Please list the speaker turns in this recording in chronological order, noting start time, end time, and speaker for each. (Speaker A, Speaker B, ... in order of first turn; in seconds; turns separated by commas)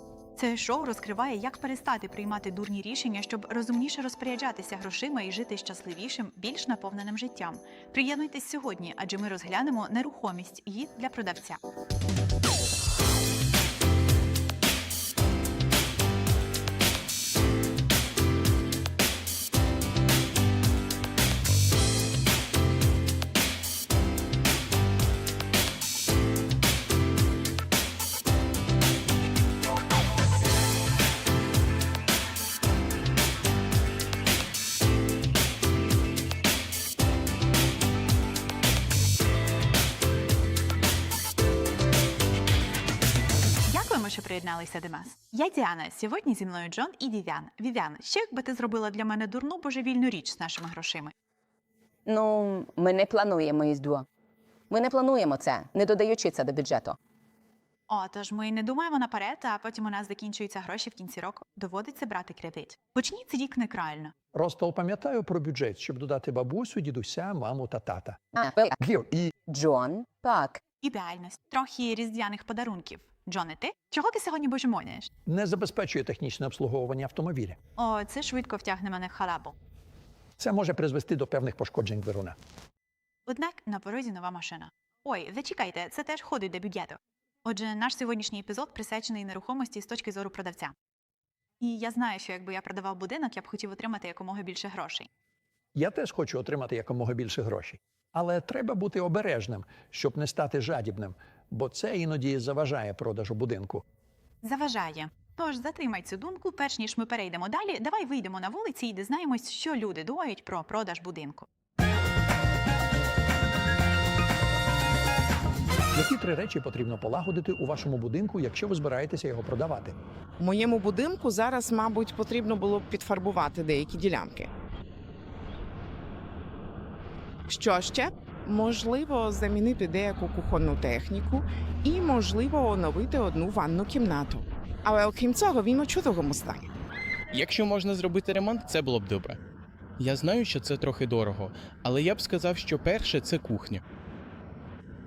Speaker A: 0.4-11.6, Speaker A: 43.7-51.1, Speaker B: 52.1-54.1, Speaker B: 54.7-57.0, Speaker A: 57.9-64.1, Speaker C: 64.3-68.2, Speaker B: 68.3-68.8, Speaker C: 68.8-69.3, Speaker B: 69.5-70.6, Speaker A: 70.8-75.1, Speaker C: 75.2-77.6, Speaker A: 77.8-79.5, Speaker C: 80.4-82.4, Speaker A: 83.3-90.7, Speaker A: 91.6-95.1, Speaker C: 95.8-103.8, Speaker A: 104.4-111.5, Speaker C: 115.9-120.0, Speaker D: 120.4-124.5, Speaker D: 127.5-136.7, Speaker E: 137.3-139.4, Speaker E: 140.0-143.8